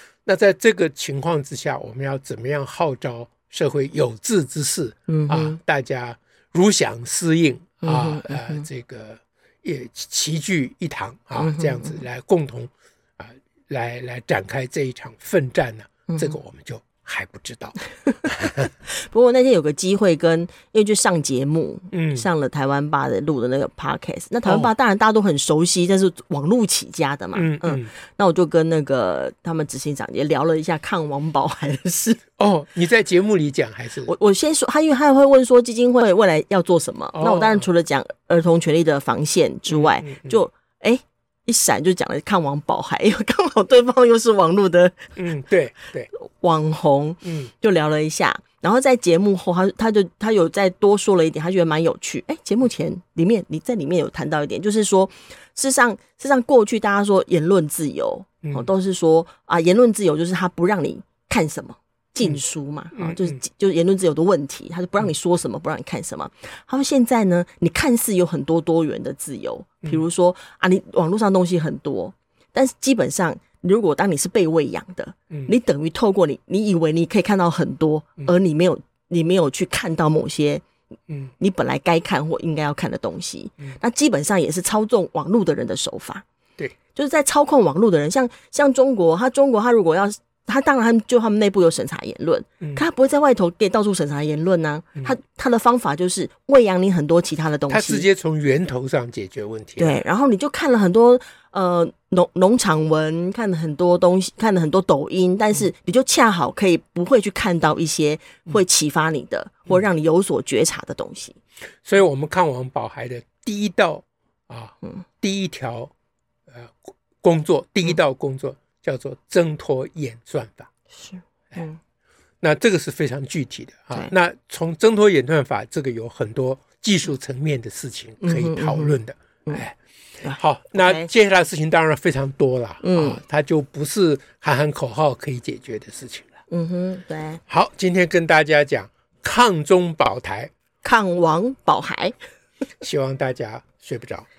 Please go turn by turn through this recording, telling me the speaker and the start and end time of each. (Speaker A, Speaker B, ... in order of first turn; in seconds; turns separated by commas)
Speaker A: 0.2-18.7, Speaker B: 5.1-5.6, Speaker B: 7.8-8.7, Speaker B: 11.4-12.0, Speaker B: 16.1-16.4, Speaker B: 18.9-32.2, Speaker A: 21.9-22.3, Speaker A: 24.4-24.7, Speaker A: 27.3-27.9, Speaker A: 32.4-34.1, Speaker B: 34.0-45.1, Speaker A: 37.1-37.7, Speaker A: 39.7-40.4, Speaker A: 45.2-46.1, Speaker B: 46.1-80.6, Speaker A: 47.2-47.5, Speaker A: 62.9-63.4, Speaker B: 81.4-86.2, Speaker B: 86.9-98.0, Speaker A: 97.7-100.0, Speaker B: 99.8-111.4, Speaker A: 111.8-115.9, Speaker A: 116.5-120.7, Speaker B: 120.9-121.8, Speaker A: 122.4-129.8, Speaker B: 128.2-129.6, Speaker B: 130.2-131.1, Speaker A: 130.3-136.3, Speaker B: 132.8-133.2, Speaker B: 136.5-137.4, Speaker A: 137.5-140.5, Speaker B: 140.8-142.1, Speaker A: 142.8-144.2